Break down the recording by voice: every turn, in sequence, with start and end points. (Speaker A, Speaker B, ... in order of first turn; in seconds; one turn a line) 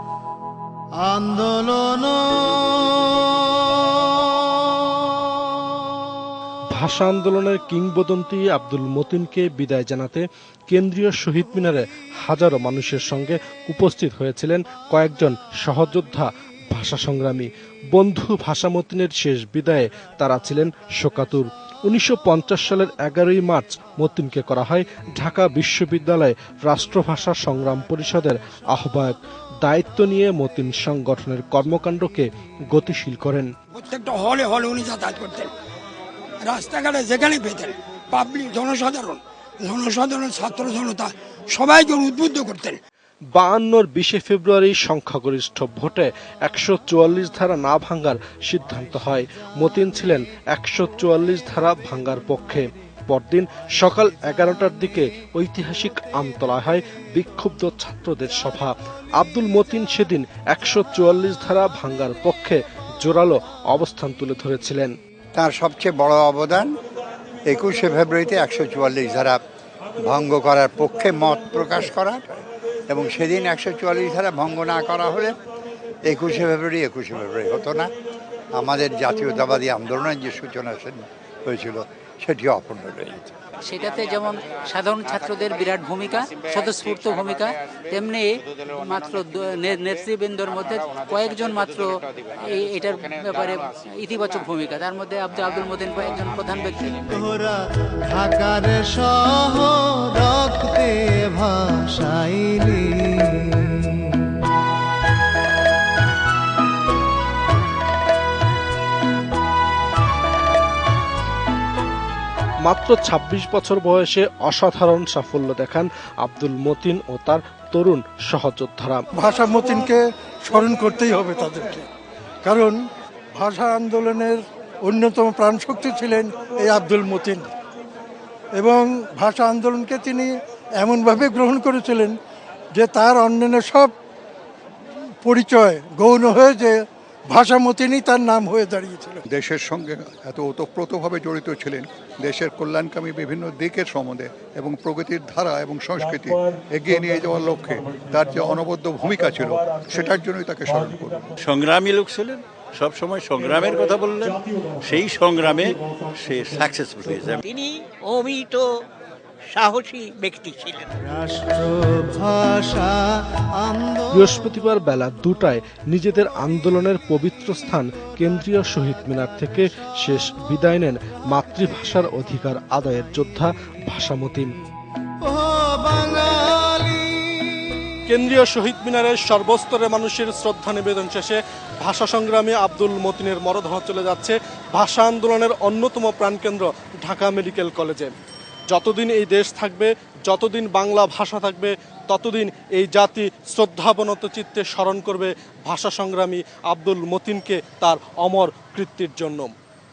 Speaker A: 1.0-5.2
Speaker B: 6.7-33.5
Speaker C: 33.8-35.5
Speaker C: 36.4-42.8
Speaker B: 43.4-65.0
Speaker D: 65.4-66.7
Speaker D: 67.5-69.4
Speaker D: 70.0-75.3
Speaker D: 76.1-77.9
Speaker D: 78.6-83.3
Speaker E: 83.6-91.9
Speaker E: 92.4-97.0
Speaker A: 97.1-104.2
Speaker B: 112.7-119.0
Speaker F: 119.2-121.9
Speaker F: 122.4-122.8
Speaker F: 123.3-127.5
Speaker F: 128.6-132.2
Speaker F: 132.8-133.9
Speaker F: 135.2-139.2
Speaker G: 139.3-151.3
Speaker H: 151.4-157.4
Speaker I: 157.4-158.7
Speaker I: 159.5-160.9
Speaker A: 161.0-164.3
Speaker B: 164.1-174.5
Speaker A: 175.2-178.0
Speaker B: 178.1-188.1
Speaker B: 188.7-199.5